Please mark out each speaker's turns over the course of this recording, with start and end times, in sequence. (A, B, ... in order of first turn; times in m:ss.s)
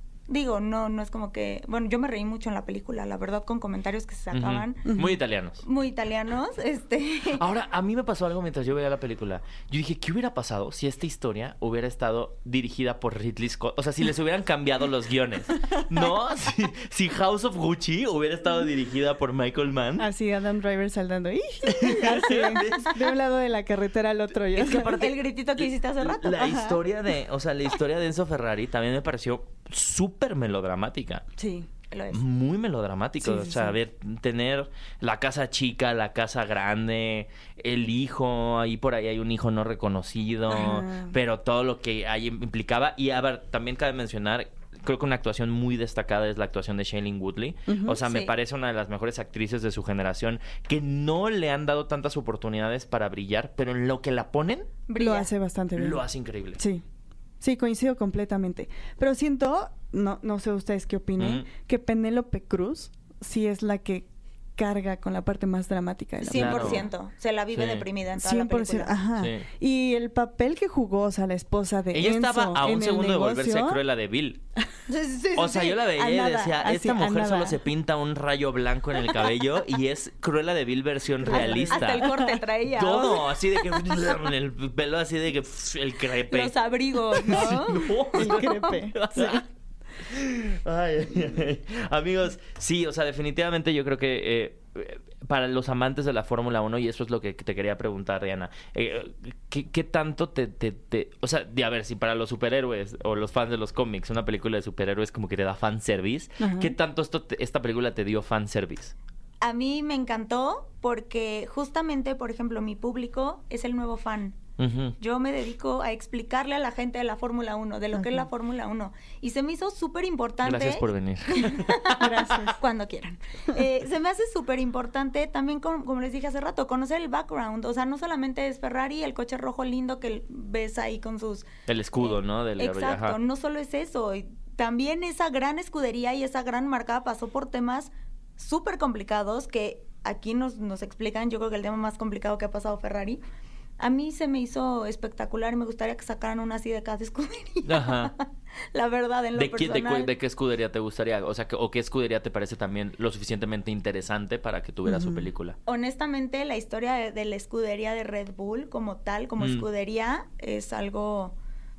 0:00.3-0:04.8 A
0:04.3-0:05.6 B
0:04.9-0:05.2 C
0:05.6-0:07.4 A
0:07.3-0:20.1 B
0:20.0-0:25.0 C
0:21.7-0:23.1 B
0:24.5-0:31.2 B
0:24.7-0:26.7 A
0:26.4-0:26.8 C
0:31.4-0:31.7 C
0:31.9-0:32.2 A
0:32.1-0:54.8 B
0:33.2-0:33.8 C
0:40.5-0:41.1 C
0:47.7-0:48.0 C
0:48.0-0:48.3 A
0:54.9-0:55.3 A
0:55.0-0:56.0 C
0:55.8-0:56.6 B
0:56.6-0:56.8 C
0:57.4-1:06.8 C
1:01.2-1:01.5 B
1:06.2-1:09.0 A
1:06.3-1:06.8 B
1:07.5-1:07.8 B
1:08.2-1:13.8 C
1:09.2-1:09.5 B
1:11.9-1:14.4 B
1:14.9-1:15.8 A
1:15.3-1:22.1 B
1:15.8-1:17.6 C
1:21.2-1:22.3 C
1:21.3-1:24.1 A
1:22.7-1:26.6 B
1:26.3-1:28.5 A
1:27.1-1:29.4 B
1:27.3-1:29.4 C
1:30.0-1:48.9 B
1:46.4-1:46.8 C
1:49.4-1:54.4 A
1:54.6-1:55.0 B
1:55.0-2:11.5 A
1:57.9-1:58.2 C
2:00.4-2:02.4 B
2:02.0-2:02.6 C
2:11.7-2:13.2 B
2:12.0-2:23.2 A
2:23.8-2:30.1 A
2:27.6-2:28.1 B
2:29.4-2:35.6 B
2:34.8-2:35.3 C
2:35.6-2:41.3 A
2:39.4-2:39.6 B